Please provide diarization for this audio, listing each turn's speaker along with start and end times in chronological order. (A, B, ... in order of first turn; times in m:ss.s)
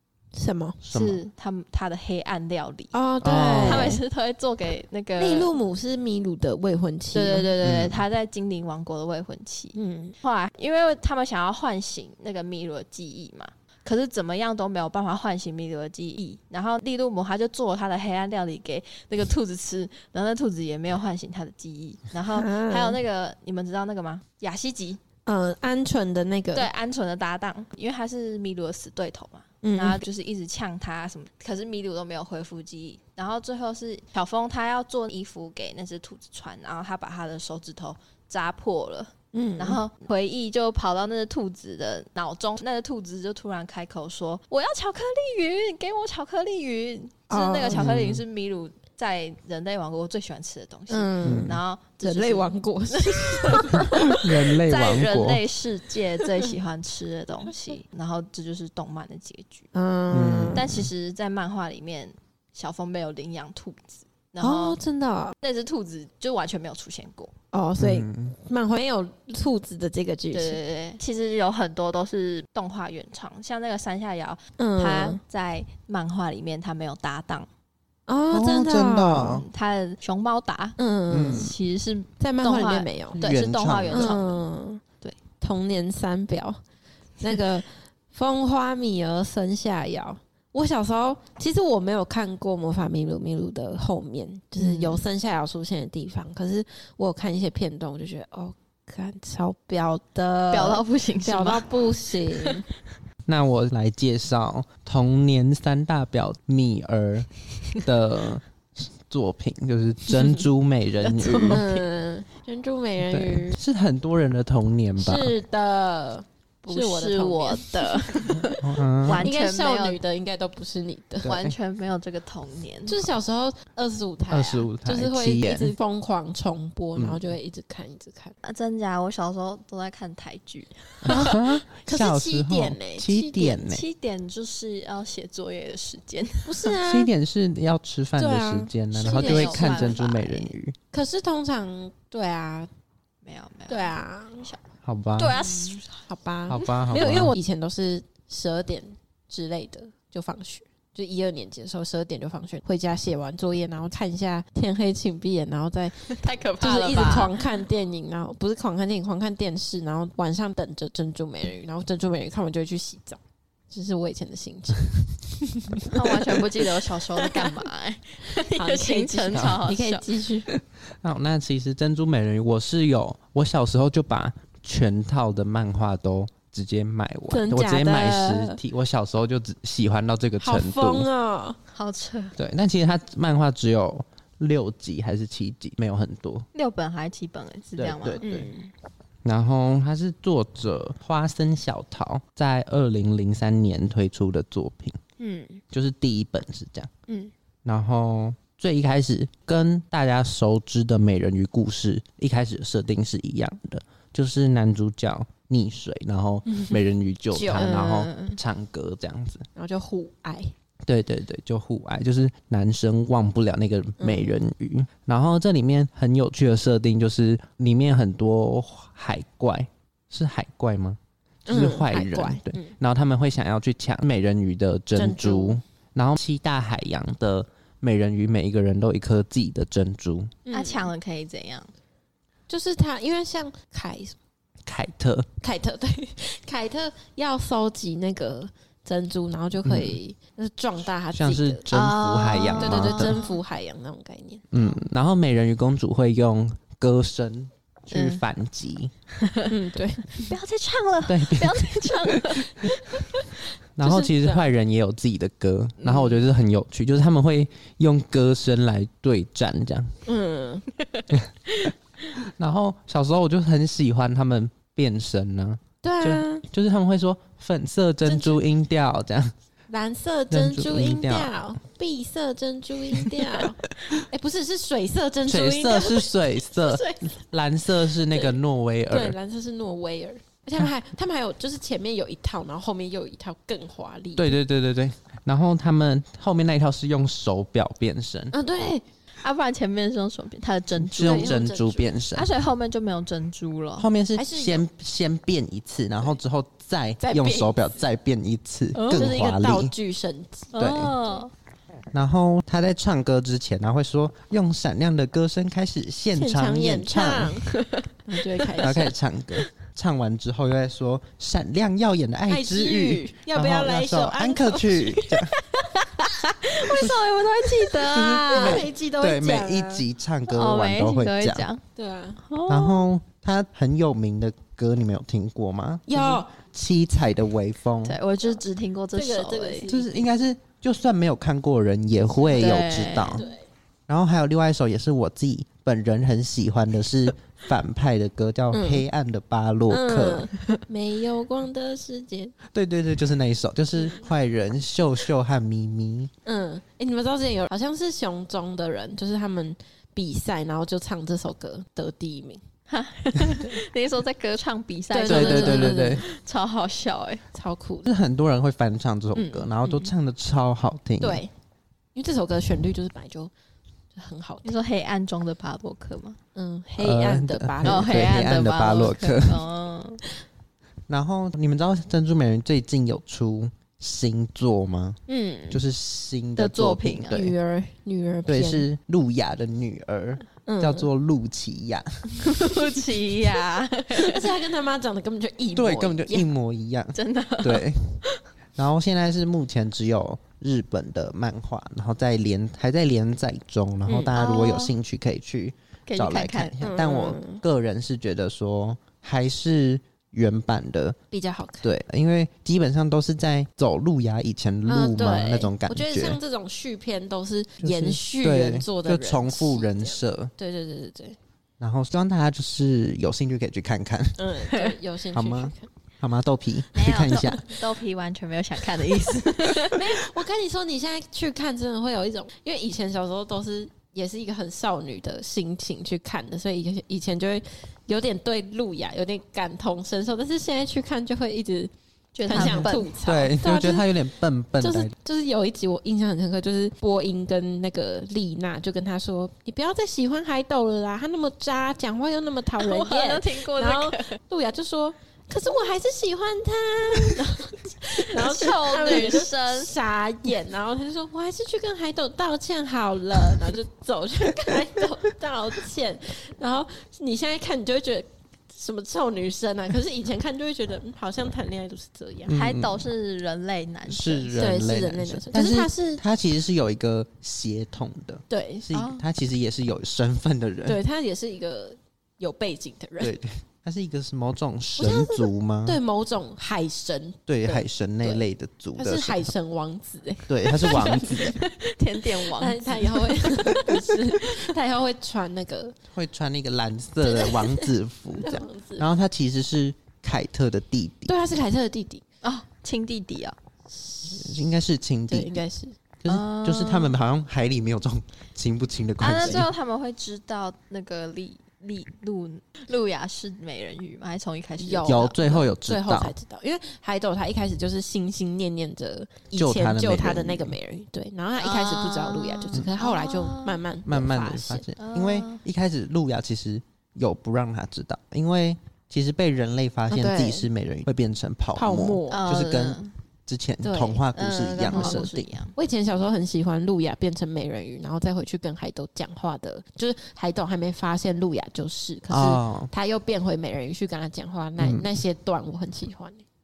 0:00.4-0:00.8 A
0:00.8-0:01.2 B
0:00.9-0:02.9 C
0:02.9-0:04.0 A
0:03.2-0:04.0 B
0:03.6-0:05.5 C
0:05.2-0:07.5 A
0:07.1-0:25.0 C
0:07.6-0:08.0 B
0:09.8-0:10.2 A
0:22.3-0:23.0 A
0:25.3-0:26.7 A
0:26.5-0:59.7 C
0:29.6-0:30.0 A
0:39.3-0:39.8 A
0:47.3-0:47.9 A
0:47.7-0:48.2 B
0:50.9-0:54.2 A
0:51.2-0:51.6 B
0:53.7-0:55.4 B
0:59.7-1:00.7 A
1:00.1-1:00.9 B
1:00.5-1:04.8 C
1:04.4-1:05.4 A
1:05.4-1:07.3 C
1:07.5-1:10.6 A
1:07.8-1:08.4 B
1:10.3-1:17.5 C
1:14.6-1:15.2 A
1:18.1-1:19.4 A
1:18.3-1:19.4 B
1:19.4-1:24.4 C
1:20.8-1:21.5 A
1:21.1-1:21.5 B
1:22.2-1:23.2 A
1:23.2-1:24.2 B
1:23.9-1:24.8 A
1:25.4-1:26.6 A
1:27.2-1:42.6 A
1:34.6-1:35.0 C
1:40.5-1:41.7 C
1:43.3-1:51.6 B
1:51.0-1:51.7 C
1:51.5-1:53.6 A
1:53.1-1:55.3 B
1:55.0-2:01.3 A
1:56.6-2:00.0 C
1:58.6-1:59.3 B
2:01.2-2:01.6 B
2:01.2-2:03.0 C
2:02.9-2:08.4 A
2:04.3-2:05.8 B
2:07.0-2:07.2 B
2:08.4-2:11.3 C
2:11.0-2:13.8 B
2:11.1-2:13.6 A
2:13.6-2:16.7 C
2:16.4-2:17.1 A
2:16.8-2:20.8 B
2:18.2-2:20.0 A
2:19.0-2:20.5 C
2:20.9-2:22.7 A
2:23.2-2:24.6 C
2:23.7-2:24.5 A
2:24.8-2:25.3 B
2:25.2-2:25.9 C
2:26.0-2:46.6 A
2:26.5-2:27.4 B
2:36.1-2:37.4 C
2:45.9-2:50.6 C
2:47.2-2:47.6 A
2:48.3-2:50.5 A
2:49.3-2:49.6 B
2:51.0-3:01.1 B
2:57.3-2:58.6 A
3:00.4-3:01.6 A
3:01.7-3:02.4 C
3:02.4-3:06.4 B
3:06.6-3:08.3 C
3:07.8-3:08.5 B
3:08.2-3:08.7 A
3:09.2-3:15.0 B
3:15.2-3:15.6 A
3:15.7-3:16.9 B
3:17.6-3:29.5 B
3:26.5-3:26.8 A
3:27.3-3:27.9 A
3:27.5-3:28.4 C
3:29.6-3:30.5 A
3:30.9-3:50.3 B
3:34.0-3:34.4 A
3:41.5-3:42.8 A
3:44.9-3:45.6 A
3:50.4-3:50.9 A
3:50.5-3:51.7 C
3:52.5-3:54.2 A
3:54.6-3:55.3 B
3:55.4-4:01.7 A
3:59.6-4:00.0 B
4:01.1-4:03.2 B
4:01.7-4:03.4 C
4:02.6-4:04.4 A
4:04.5-4:08.9 B
4:07.9-4:08.2 C
4:09.2-4:09.5 C
4:09.5-4:10.3 A
4:10.2-4:13.3 C
4:11.0-4:12.7 B
4:13.8-4:19.9 B
4:13.8-4:14.4 A
4:15.8-4:16.1 C
4:20.0-4:20.7 A
4:20.8-4:21.7 C
4:22.4-4:29.3 B
4:25.8-4:26.4 A
4:28.1-4:28.4 C
4:29.7-4:37.1 A
4:30.3-4:31.3 B
4:35.3-4:39.2 B
4:38.1-4:38.4 A
4:38.9-4:44.4 A
4:44.2-4:48.3 B
4:48.3-4:48.8 A
4:49.2-4:51.4 C
4:50.8-4:52.3 B
4:51.0-4:52.0 A
4:52.1-4:53.9 C
4:53.8-4:59.7 B
4:54.2-4:54.7 A
4:57.0-4:57.6 A
4:58.7-4:59.1 C
4:58.8-5:00.6 A
5:00.6-5:01.3 C
5:00.6-5:01.0 B
5:01.9-5:07.4 B
5:06.1-5:07.5 A
5:07.5-5:07.9 C
5:08.0-5:09.0 A
5:08.6-5:15.4 B
5:12.3-5:15.1 A
5:15.4-5:18.7 C
5:16.7-5:17.0 B
5:17.8-5:21.5 B
5:18.3-5:19.8 A
5:20.3-5:21.6 C
5:21.8-5:22.2 A
5:22.3-5:22.9 C
5:22.5-5:28.0 B
5:25.9-5:26.3 A
5:27.8-5:29.7 C
5:28.9-5:30.1 A
5:29.7-5:33.3 B
5:32.2-5:33.5 A
5:32.3-5:33.3 C
5:33.9-5:40.3 B
5:38.5-5:38.8 A
5:39.7-5:42.4 A
5:42.5-5:46.1 B
5:46.2-5:52.4 A
5:52.7-5:57.2 C
5:53.3-5:53.6 A
5:54.9-5:56.0 A
5:55.0-5:56.0 B
5:57.3-5:57.9 A
5:57.8-6:01.2 B
5:59.1-5:59.9 A
6:01.0-6:01.3 A
6:02.0-6:03.3 A
6:03.9-6:04.5 A
6:04.4-6:06.2 C
6:06.4-6:08.0 A
6:06.8-6:09.4 B
6:07.6-6:10.0 C
6:10.9-6:17.4 B
6:15.1-6:15.6 A
6:16.4-6:17.2 C
6:17.1-6:18.7 A
6:18.3-6:22.2 B
6:20.4-6:20.9 A
6:22.2-6:24.3 C
6:23.9-6:26.3 A
6:25.6-6:28.0 B
6:27.0-6:28.2 C
6:28.6-6:41.0 B
6:33.9-6:34.2 A
6:34.1-6:34.8 C
6:35.9-6:36.8 C
6:36.6-6:37.4 A
6:41.1-6:41.7 A
6:41.6-6:46.2 B
6:44.7-6:51.2 A
6:47.6-6:50.3 B
6:51.6-6:54.2 B
6:54.2-6:55.7 A
6:55.1-6:57.5 B
6:56.7-6:59.9 C
6:59.6-7:11.7 A
7:12.1-7:12.9 C
7:12.3-7:13.9 A
7:12.3-7:14.9 B
7:14.6-7:42.4 A
7:22.6-7:24.2 C
7:28.0-7:29.7 C
7:42.3-7:42.9 B
7:42.3-7:44.4 C
7:43.9-7:50.8 B
7:44.4-7:46.0 A
7:48.3-7:48.7 A
7:48.7-7:49.0 C
7:50.7-7:53.2 A
7:53.0-7:55.8 B
7:54.8-7:58.2 A
7:57.3-7:59.3 B
7:58.8-8:01.4 A
8:00.3-8:01.4 B
8:00.6-8:04.4 C
8:02.1-8:05.8 A
8:05.9-8:11.1 B
8:07.0-8:08.9 A
8:11.1-8:12.0 A
8:12.2-8:13.4 C
8:13.7-8:14.5 A
8:14.1-8:15.3 B
8:15.1-8:15.8 A
8:16.0-8:19.5 B
8:16.1-8:17.0 C
8:19.0-8:25.3 C
8:24.6-8:34.7 A
8:24.8-8:26.1 B
8:29.3-8:30.6 B
8:31.4-8:33.6 C
8:33.9-8:45.3 B
8:34.8-8:35.4 C
8:39.9-8:40.5 A
8:41.6-8:42.3 A
8:42.1-8:42.9 C
8:43.6-8:44.0 A
8:44.1-8:45.5 C
8:44.7-8:56.2 A
8:52.1-8:52.7 B
8:54.6-8:54.9 B